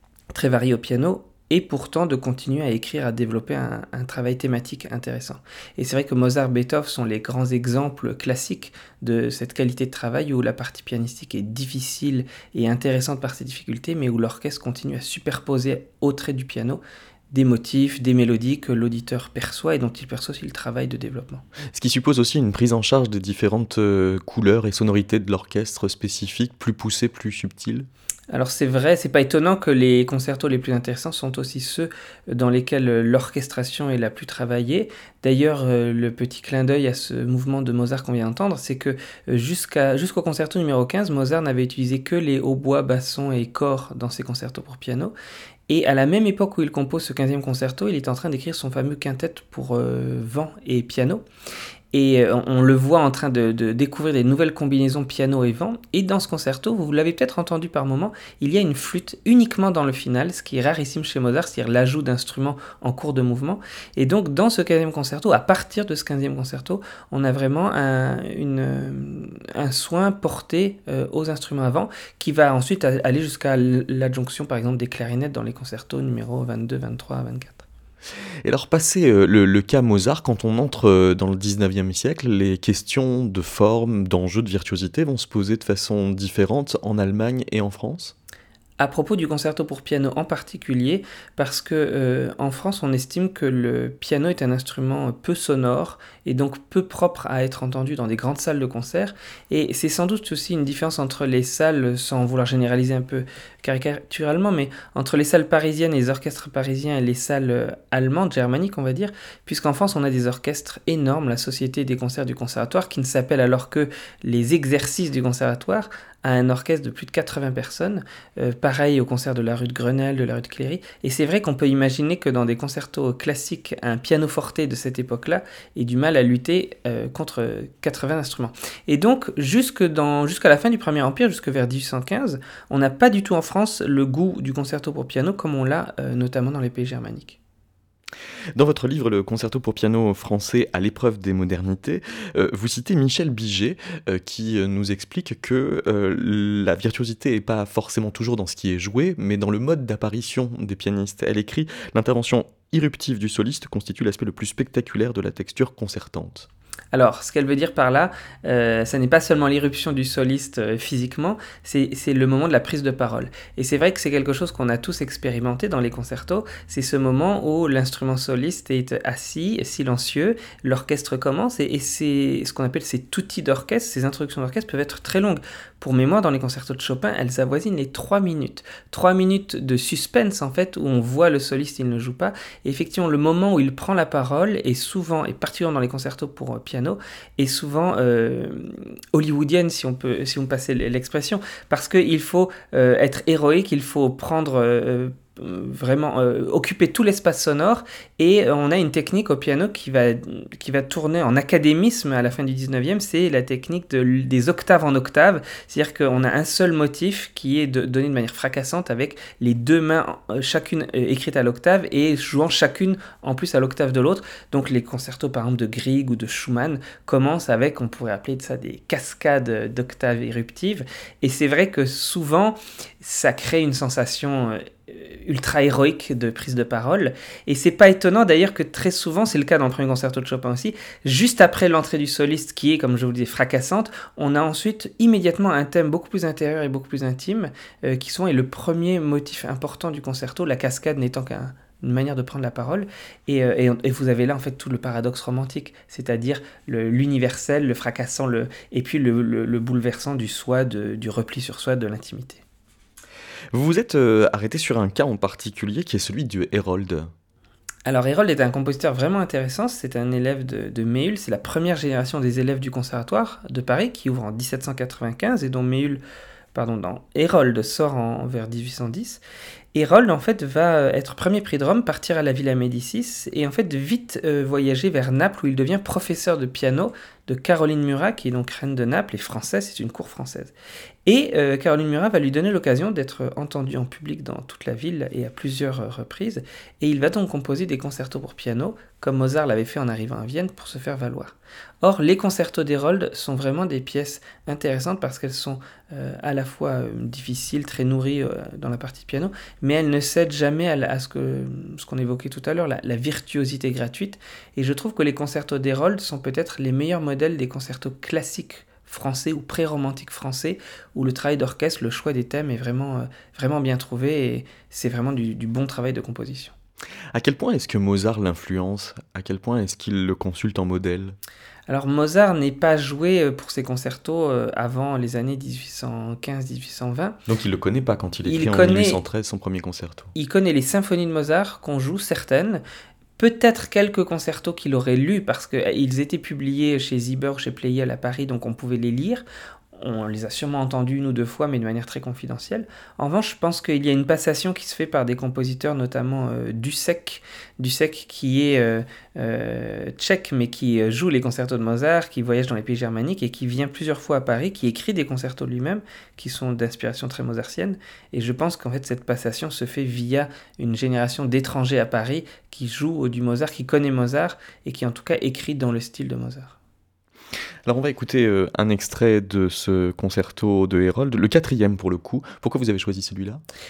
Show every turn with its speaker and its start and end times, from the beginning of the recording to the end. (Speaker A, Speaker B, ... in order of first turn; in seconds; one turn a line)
Speaker A: 0.3-21.4
Speaker B: 21.7-27.9
Speaker A: 28.3-45.1
Speaker A: 45.7-51.2
Speaker A: 51.9-77.7
Speaker B: 78.4-88.1
Speaker A: 88.8-137.4
Speaker B: 138.5-156.5
Speaker A: 156.9-252.4
Speaker B: 253.5-257.1
Speaker A: 257.9-266.0
Speaker A: 266.5-269.2
Speaker A: 269.7-280.5
Speaker A: 281.1-316.5
Speaker B: 317.1-321.2
Speaker A: 321.7-327.2
Speaker B: 327.3-330.1
Speaker A: 328.2-329.0
Speaker A: 330.1-332.6
Speaker A: 333.2-366.6
Speaker B: 367.6-373.4